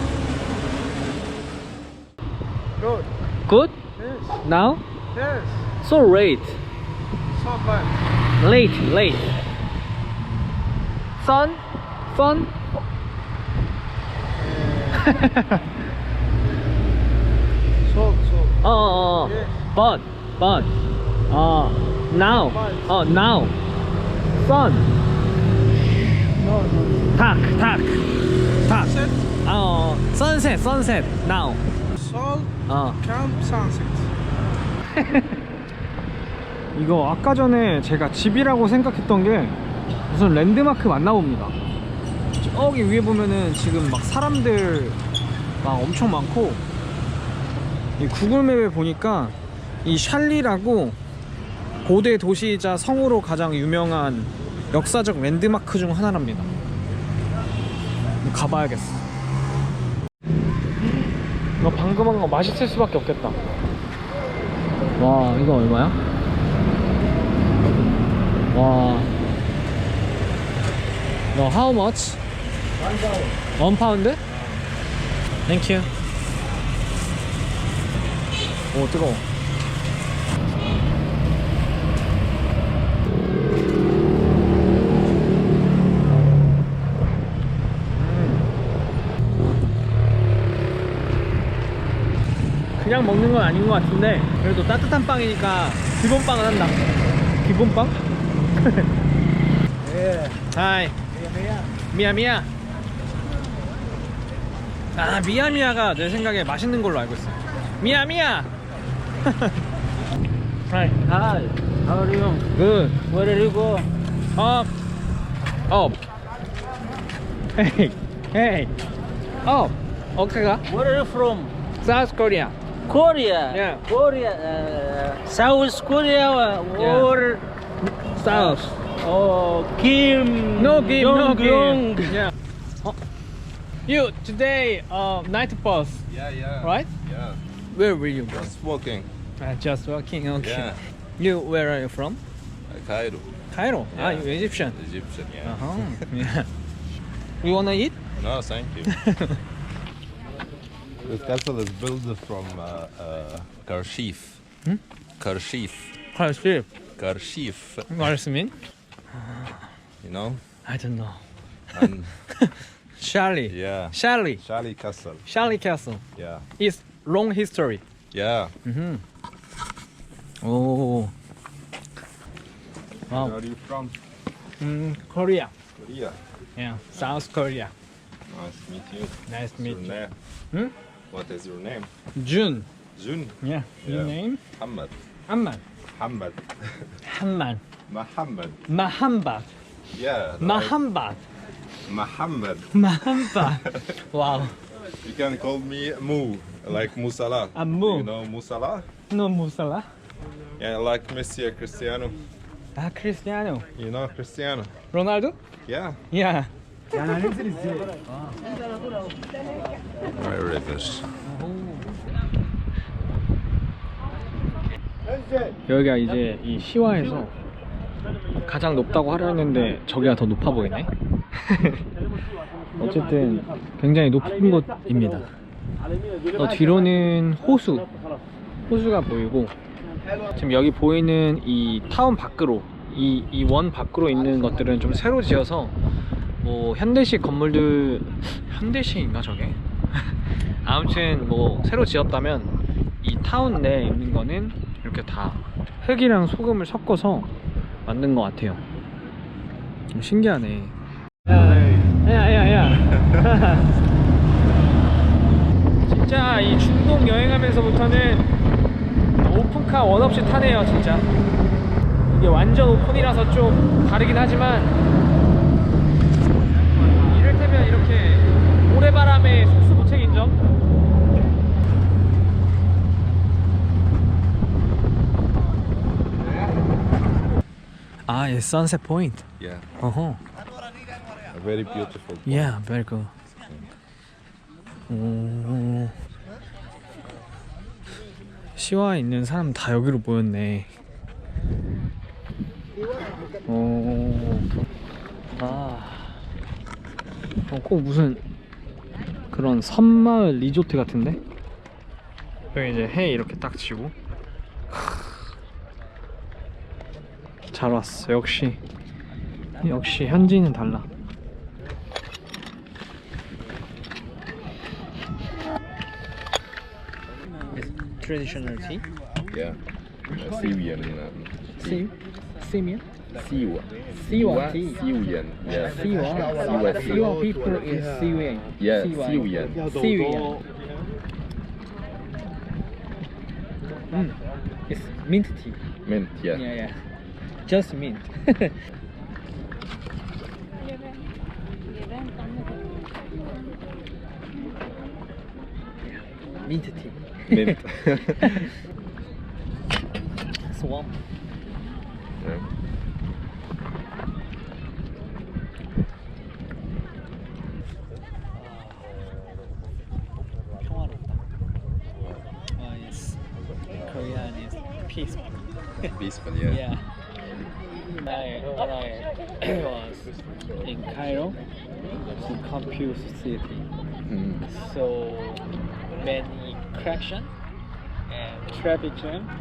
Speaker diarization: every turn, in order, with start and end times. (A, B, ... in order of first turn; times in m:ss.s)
0:02.8-0:03.1 A
0:03.5-0:03.8 B
0:04.0-0:04.4 A
0:04.4-0:04.8 B
0:05.1-0:05.7 A
0:05.8-0:06.6 B
0:07.3-0:07.9 A
0:08.4-0:09.3 B
0:11.2-0:12.5 B
0:14.4-0:15.1 A
0:15.0-0:15.6 B
0:17.8-0:18.6 A
0:18.6-0:20.7 B
0:19.1-0:19.6 A
0:21.3-0:23.6 B
0:22.3-0:22.9 A
0:24.4-0:24.9 B
0:26.4-0:27.2 A
0:27.2-0:28.1 B
0:28.6-0:31.6 B
0:28.7-0:29.3 A
0:32.0-0:34.2 A
0:32.7-0:33.0 B
0:35.0-0:35.4 B
0:36.8-0:39.6 B
0:40.1-0:41.6 B
0:42.4-0:45.0 B
0:45.6-0:46.6 B
0:48.0-0:51.0 B
0:51.8-0:56.5 B
0:58.2-0:59.0 B
1:01.6-1:03.4 B
1:05.0-1:06.0 B
1:08.5-1:09.1 B
1:11.3-1:12.2 B
1:13.6-1:14.2 B
1:15.5-1:15.9 B
1:18.7-1:19.2 B
1:28.0-1:28.5 B
1:32.8-1:36.8 B
1:37.4-1:38.0 B
1:38.6-1:38.9 B
1:40.5-1:41.0 B
1:41.9-1:42.5 B
1:45.0-1:48.5 B
1:49.3-1:49.6 B
1:50.7-1:51.0 B
1:51.0-1:52.5 C
1:52.5-1:53.0 B
1:53.1-1:53.9 C
1:54.4-1:54.7 B
1:55.7-1:56.0 B
1:57.6-1:58.7 B
1:59.4-2:00.6 B
2:00.7-2:01.5 C
2:01.8-2:02.6 B
2:02.9-2:07.4 C
2:03.5-2:03.8 B
2:06.8-2:07.1 B
2:08.2-2:08.7 B
2:08.2-2:12.2 C
2:10.6-2:13.0 B
2:13.9-2:16.1 B
2:16.1-2:17.4 D
2:16.6-2:16.9 B
2:17.7-2:18.5 B
2:18.3-2:19.1 D
2:19.4-2:22.2 B
2:20.4-2:20.8 D
2:22.7-2:23.3 D
2:23.5-2:24.8 B
2:23.9-2:26.1 D
2:25.4-2:26.5 B
2:27.4-2:28.0 B
2:28.2-2:29.0 D
2:28.9-2:29.4 B
2:31.0-2:34.4 D
2:35.2-2:35.9 D
2:36.1-2:36.7 B
2:37.0-2:38.1 D
2:37.9-2:38.6 B
2:39.1-2:39.7 B
2:40.0-2:40.4 D
2:40.6-2:44.4 B
2:41.7-2:42.2 D
2:43.5-2:45.2 D
2:45.3-2:46.0 B
2:46.2-2:46.4 D
2:46.6-2:47.8 B
2:48.1-2:48.5 D
2:48.6-2:49.0 B
2:50.4-2:51.1 B
2:53.1-2:53.4 B
2:53.1-2:54.0 D
2:54.6-2:55.5 B
2:55.8-2:56.2 D
2:56.6-2:57.7 B
2:58.3-3:00.2 D
2:59.3-3:00.0 B
3:01.1-3:01.9 D
3:02.2-3:02.7 B
3:03.0-3:04.9 D
3:03.4-3:04.4 B
3:05.3-3:05.6 B
3:05.9-3:07.0 D
3:07.0-3:07.6 B
3:07.9-3:08.6 D
3:08.7-3:09.5 B
3:09.9-3:10.8 D
3:10.4-3:11.2 B
3:11.9-3:18.9 D
3:12.7-3:14.6 B
3:17.6-3:18.1 B
3:19.1-3:19.9 B
3:20.6-3:22.2 D
3:22.8-3:23.7 B
3:23.8-3:24.8 D
3:24.9-3:25.4 B
3:25.7-3:26.0 D
3:26.1-3:28.4 B
3:30.0-3:31.1 D
3:31.2-3:31.9 B
3:35.7-3:37.3 B
3:38.4-3:41.8 B
3:42.8-3:45.3 B
3:46.4-3:47.9 B
3:48.7-3:49.6 B
3:50.3-3:55.8 B
3:56.4-4:07.3 B
4:07.9-4:08.6 B
4:09.9-4:10.7 B
4:11.3-4:11.9 D
4:11.3-4:13.7 B
4:12.9-4:13.3 D
4:15.8-4:18.3 B
4:19.2-4:21.1 B
4:22.1-4:24.8 B
4:26.8-4:30.4 B
4:38.1-4:39.3 B
4:39.4-4:39.7 D
4:39.8-4:40.2 B
4:41.3-4:42.6 D
4:42.3-4:43.1 B
4:44.9-4:46.0 B
4:48.6-4:50.7 B
4:53.5-4:54.5 B
4:55.4-4:56.2 B
4:57.5-4:58.2 B
4:59.3-5:01.2 B
5:02.6-5:04.0 B
5:04.7-5:05.2 B
5:07.5-5:08.6 B
5:09.6-5:10.9 B
5:17.5-5:18.9 B
5:19.3-5:21.9 D
5:21.6-5:22.8 B
5:23.1-5:27.3 D
5:24.0-5:24.9 B
5:25.5-5:30.4 B
5:28.6-5:29.7 D
5:34.7-5:35.6 B
5:35.8-5:36.5 D
5:36.3-5:36.8 B
5:37.4-5:38.6 B
5:45.9-5:48.5 B
5:47.3-5:48.4 D
5:50.4-5:51.0 B
5:52.2-5:52.5 D
5:58.4-5:58.8 B
6:00.6-6:01.2 B
6:02.6-6:03.2 B
6:03.8-6:05.3 B
6:05.8-6:06.6 D
6:06.5-6:06.9 B
6:08.0-6:11.4 B
6:12.2-6:13.7 B
6:14.0-6:14.5 D
6:14.4-6:15.4 B
6:16.0-6:17.3 B
6:18.1-6:19.3 B